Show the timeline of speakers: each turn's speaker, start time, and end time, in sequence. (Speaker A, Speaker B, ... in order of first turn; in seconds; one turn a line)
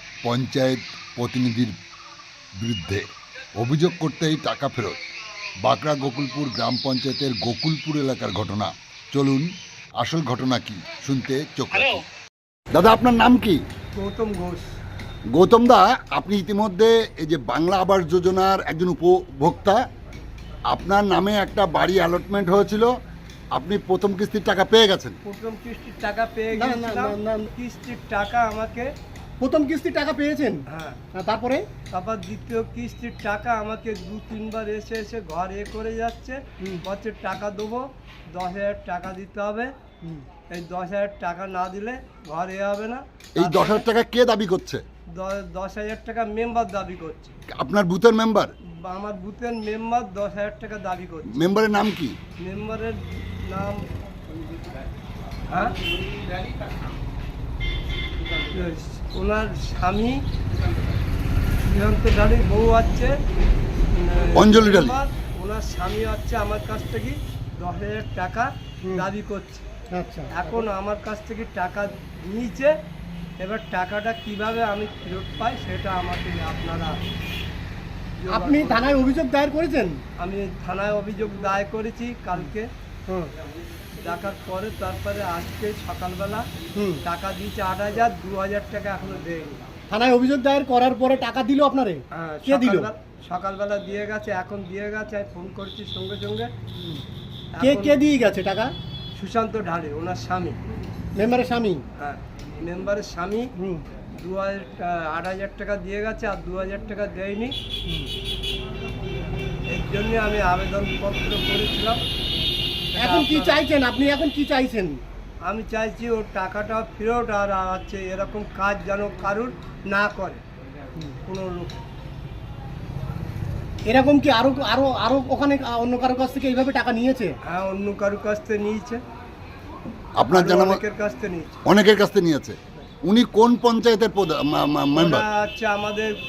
Speaker A: 0.2-1.8
Speaker A: 2.6-5.0
Speaker A: 5.6-12.0
Speaker A: 12.7-13.6
Speaker B: 13.9-14.7
Speaker A: 15.3-19.8
Speaker A: 20.7-22.9
Speaker A: 23.5-25.2
Speaker B: 25.2-28.9
Speaker C: 26.5-27.5
Speaker C: 29.4-30.6
Speaker B: 30.7-31.0
Speaker C: 31.2-31.6
Speaker B: 31.9-39.7
Speaker B: 40.5-43.8
Speaker A: 43.4-44.8
Speaker B: 45.1-47.3
Speaker A: 47.5-48.5
Speaker B: 48.8-51.4
Speaker A: 51.3-52.1
Speaker B: 52.4-53.8
Speaker B: 55.5-55.8
Speaker B: 58.5-60.2
Speaker B: 61.6-63.1
Speaker B: 63.9-69.6
Speaker A: 64.3-65.0
Speaker C: 69.9-70.6
Speaker B: 70.3-72.7
Speaker B: 73.4-77.0
Speaker B: 78.2-79.1
Speaker C: 78.3-80.0
Speaker B: 80.2-82.7
Speaker B: 84.0-86.4
Speaker B: 87.0-89.6
Speaker C: 89.9-92.9
Speaker B: 92.1-96.5
Speaker B: 97.5-98.0
Speaker C: 97.6-98.7
Speaker B: 99.2-100.6
Speaker C: 101.2-101.8
Speaker B: 102.0-103.5
Speaker B: 104.2-107.5
Speaker B: 109.7-112.0
Speaker B: 112.9-113.6
Speaker C: 113.0-115.0
Speaker B: 115.5-120.4
Speaker B: 121.2-121.8
Speaker C: 123.8-127.3
Speaker B: 127.5-129.0
Speaker A: 130.2-130.8
Speaker B: 130.3-131.6
Speaker A: 131.7-135.2
Speaker B: 134.9-136.1